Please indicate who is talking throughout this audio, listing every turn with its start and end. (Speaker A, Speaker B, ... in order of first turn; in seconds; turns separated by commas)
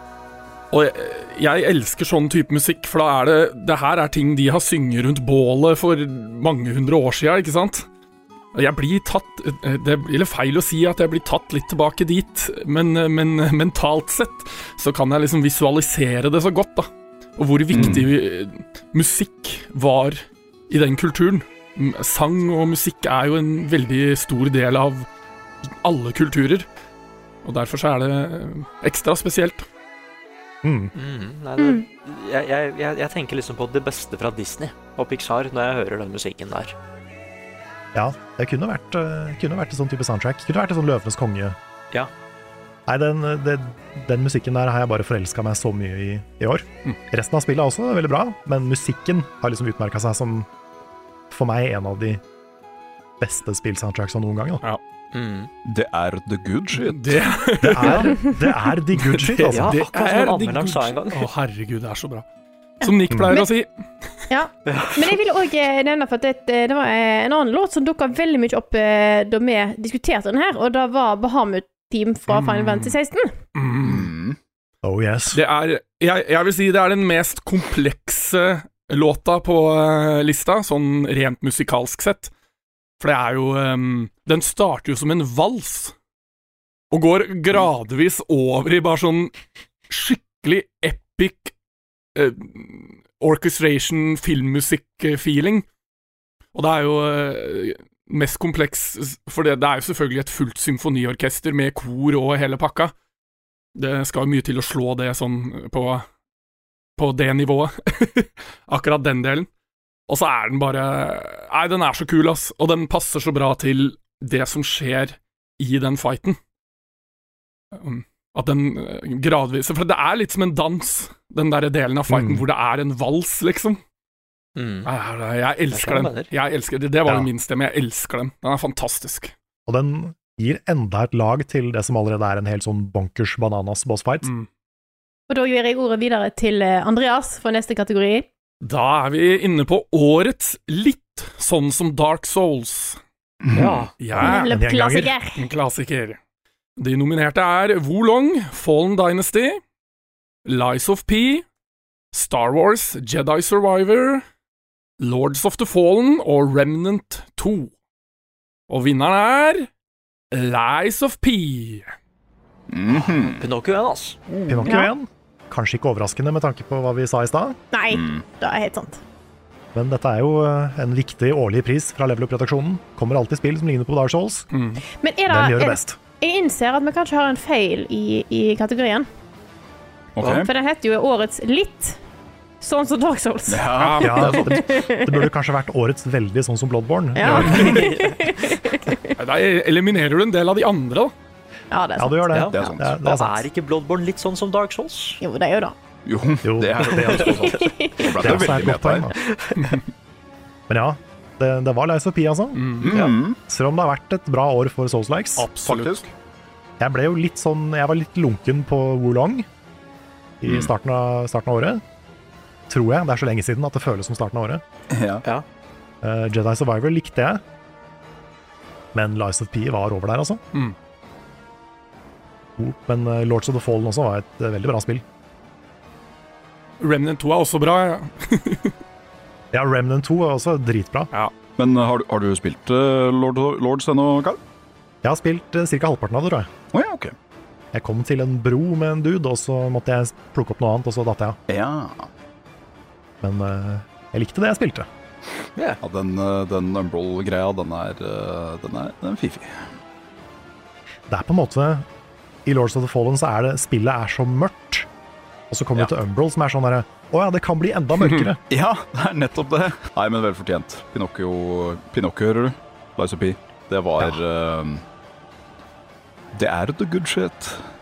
Speaker A: 0.7-7.9, Speaker A: 8.5-25.1, Speaker B: 17.7-18.1, Speaker C: 17.7-18.0, Speaker A: 25.8-26.7, Speaker A: 27.4-29.6, Speaker C: 30.6-30.9, Speaker D: 30.9-36.7, Speaker E: 31.6-31.8, Speaker C: 37.9-41.6, Speaker C: 42.9-50.5, Speaker C: 51.3-52.2, Speaker C: 53.2-54.6, Speaker D: 55.1-55.5, Speaker B: 55.6-57.3, Speaker A: 56.8-62.2, Speaker C: 57.6-59.8, Speaker D: 59.5-61.3, Speaker A: 62.8-63.7, Speaker E: 62.8-63.5, Speaker C: 63.1-63.4, Speaker E: 64.3-73.3, Speaker D: 64.7-65.2, Speaker A: 72.3-73.0, Speaker A: 73.5-74.1, Speaker B: 73.8-74.4, Speaker C: 74.8-75.4, Speaker A: 75.3-82.3, Speaker A: 83.0-85.9, Speaker A: 86.9-89.3, Speaker A: 89.9-91.5, Speaker A: 92.1-95.6, Speaker A: 96.5-102.9, Speaker A: 103.7-106.0, Speaker A: 107.0-109.5, Speaker A: 110.1-116.4, Speaker A: 117.7-123.8, Speaker C: 122.1-122.4, Speaker D: 124.5-124.9, Speaker A: 124.8-129.3, Speaker D: 125.7-126.3, Speaker C: 129.7-134.3, Speaker A: 134.2-134.5, Speaker E: 135.3-138.3, Speaker A: 138.6-143.0, Speaker B: 143.5-143.9, Speaker D: 143.5-143.9, Speaker A: 144.0-144.6, Speaker C: 144.1-145.1, Speaker E: 144.2-145.4, Speaker A: 145.3-146.2, Speaker A: 146.8-149.6, Speaker A: 150.4-151.4, Speaker A: 152.1-154.2, Speaker A: 155.0-157.7, Speaker A: 158.7-159.7, Speaker A: 160.3-161.9, Speaker B: 162.7-163.4, Speaker D: 162.9-164.2, Speaker C: 164.5-167.6, Speaker E: 164.7-164.9, Speaker E: 167.7-169.0, Speaker B: 167.9-168.2, Speaker C: 169.7-174.5, Speaker A: 174.5-174.8, Speaker E: 175.0-179.1, Speaker C: 175.3-176.0, Speaker B: 180.2-180.5, Speaker E: 180.3-182.0, Speaker E: 182.6-183.7, Speaker B: 183.5-184.5, Speaker A: 183.8-184.3, Speaker C: 184.0-187.8, Speaker E: 184.2-185.3, Speaker E: 187.2-189.1, Speaker A: 187.3-187.8, Speaker D: 187.5-188.3, Speaker A: 189.2-191.1, Speaker E: 191.7-192.7, Speaker C: 192.0-193.4, Speaker D: 192.3-195.2, Speaker B: 192.5-193.0, Speaker E: 195.2-195.8, Speaker B: 196.0-199.1, Speaker C: 196.4-197.6, Speaker D: 197.0-197.8, Speaker E: 197.5-198.0, Speaker C: 198.2-199.1, Speaker D: 199.2-199.8, Speaker C: 200.7-202.6, Speaker A: 202.5-202.9, Speaker B: 202.8-203.4, Speaker D: 202.9-203.1, Speaker C: 203.5-205.5, Speaker A: 205.4-206.1, Speaker B: 205.6-206.0, Speaker C: 206.8-209.5, Speaker C: 210.4-211.8, Speaker B: 210.4-210.7, Speaker C: 212.7-214.6, Speaker B: 214.9-215.2, Speaker C: 216.0-217.4, Speaker C: 218.9-220.4, Speaker C: 222.6-225.0, Speaker A: 226.8-228.7, Speaker C: 229.5-231.1, Speaker B: 231.6-234.4, Speaker C: 235.0-236.5, Speaker B: 236.7-237.1, Speaker C: 237.7-241.4, Speaker B: 241.5-242.1, Speaker C: 243.2-244.9, Speaker B: 245.8-249.7, Speaker C: 251.1-251.8, Speaker C: 252.4-254.9, Speaker C: 255.5-258.4, Speaker B: 258.5-264.8, Speaker B: 266.3-267.6